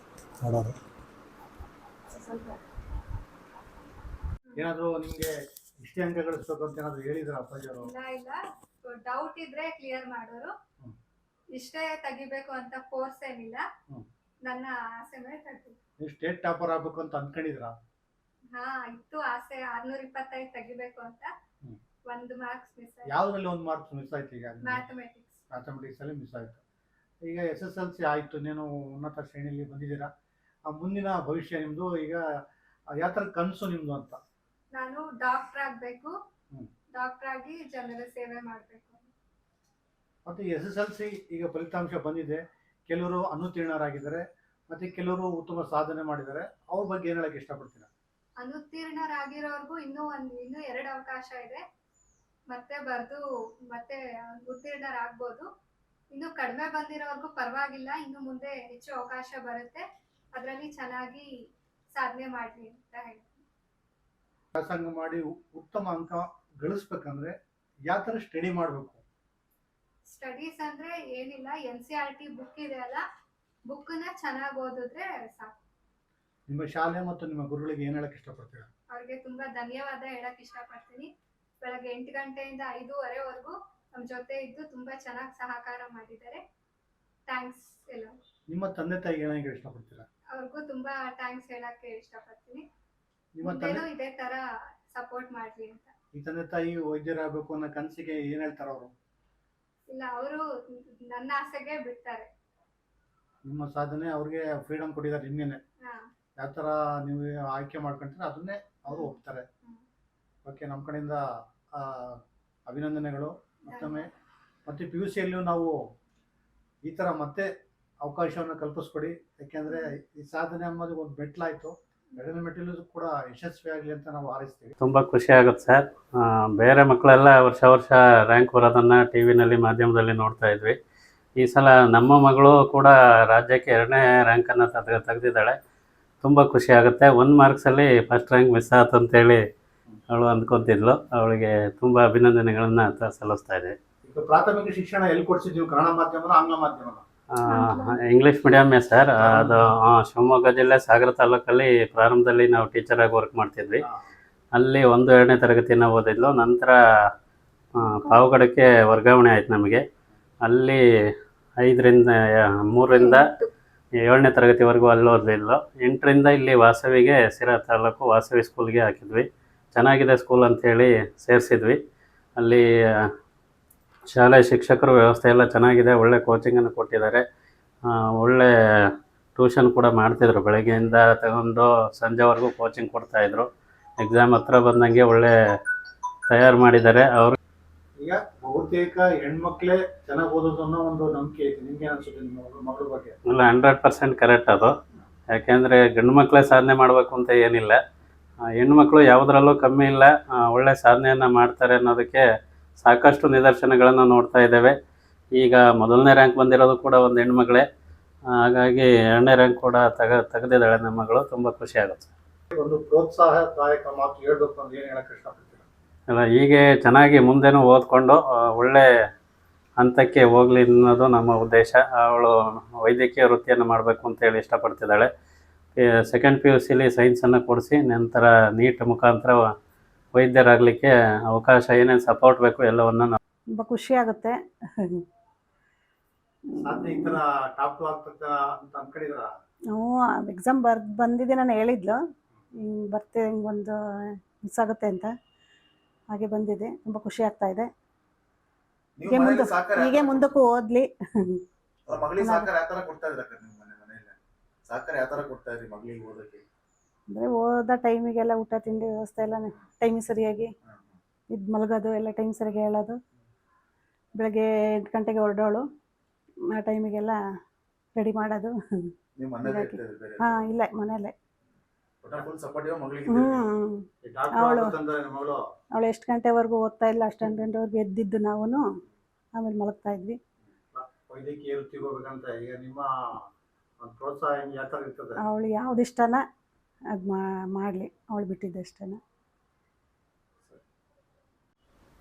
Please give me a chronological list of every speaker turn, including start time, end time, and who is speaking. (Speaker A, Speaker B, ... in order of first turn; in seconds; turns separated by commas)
Speaker A: 0.4-0.8, Speaker A: 4.6-5.3, Speaker A: 5.8-7.9, Speaker B: 7.8-10.5, Speaker B: 11.5-13.6, Speaker B: 14.4-15.8, Speaker A: 16.0-17.7, Speaker B: 18.5-21.3, Speaker B: 22.1-23.1, Speaker A: 23.1-24.8, Speaker B: 24.6-25.4, Speaker A: 25.5-26.6, Speaker A: 27.2-30.1, Speaker A: 30.7-32.2, Speaker A: 33.0-34.2, Speaker B: 34.7-36.1, Speaker B: 37.0-39.1, Speaker A: 40.2-47.9, Speaker B: 48.4-51.6, Speaker B: 52.5-53.2, Speaker B: 53.7-55.5, Speaker B: 56.1-61.3, Speaker B: 61.9-63.4, Speaker A: 64.5-67.3, Speaker A: 67.9-69.0, Speaker B: 70.1-73.0, Speaker B: 73.7-75.6, Speaker A: 76.5-78.7, Speaker B: 78.9-81.1, Speaker B: 81.6-86.4, Speaker B: 87.3-88.1, Speaker A: 88.5-90.1, Speaker B: 90.3-92.6, Speaker A: 93.3-93.8, Speaker B: 93.4-95.9, Speaker A: 96.1-98.9, Speaker B: 99.9-100.4, Speaker B: 101.1-102.3, Speaker A: 103.5-105.6, Speaker A: 106.4-109.4, Speaker A: 110.4-111.2, Speaker A: 111.8-114.1, Speaker B: 113.7-114.1, Speaker A: 114.7-115.8, Speaker A: 116.8-117.5, Speaker A: 118.0-124.7, Speaker C: 124.8-130.8, Speaker C: 131.4-135.6, Speaker C: 136.2-139.4, Speaker C: 140.1-143.7, Speaker A: 144.0-147.0, Speaker B: 147.4-148.0, Speaker C: 147.5-153.8, Speaker A: 149.2-149.7, Speaker C: 154.6-156.8, Speaker C: 157.8-159.8, Speaker C: 160.4-160.8, Speaker C: 161.6-162.1, Speaker C: 162.7-163.3, Speaker B: 162.9-163.5, Speaker C: 164.0-171.8, Speaker C: 172.4-173.1, Speaker C: 174.1-177.2, Speaker C: 178.2-178.5, Speaker C: 179.3-183.5, Speaker C: 184.0-185.3, Speaker C: 186.3-187.3, Speaker A: 188.0-193.1, Speaker C: 193.3-194.7, Speaker C: 195.3-197.8, Speaker C: 198.6-202.2, Speaker C: 202.8-204.7, Speaker C: 205.4-207.7, Speaker C: 208.4-212.1, Speaker A: 212.5-215.7, Speaker C: 216.1-218.8, Speaker C: 219.8-225.1, Speaker C: 225.8-229.4, Speaker C: 230.2-233.2, Speaker D: 233.5-235.0, Speaker A: 236.6-239.3, Speaker D: 239.7-242.0, Speaker D: 242.6-243.8, Speaker D: 244.4-245.1, Speaker D: 246.1-247.7, Speaker E: 249.0-250.4, Speaker D: 249.1-251.4, Speaker E: 251.9-256.4, Speaker D: 252.2-252.5, Speaker D: 257.1-260.5, Speaker E: 260.7-261.0, Speaker D: 261.3-263.0, Speaker D: 264.2-265.6, Speaker D: 266.6-267.2, Speaker D: 267.9-268.5, Speaker E: 269.2-270.4, Speaker D: 269.4-271.1, Speaker E: 272.0-273.4, Speaker D: 273.1-274.8, Speaker A: 274.0-275.4, Speaker D: 275.8-278.6, Speaker D: 279.4-280.2, Speaker A: 280.7-282.9, Speaker A: 283.8-285.2, Speaker D: 285.2-286.2, Speaker D: 286.9-289.0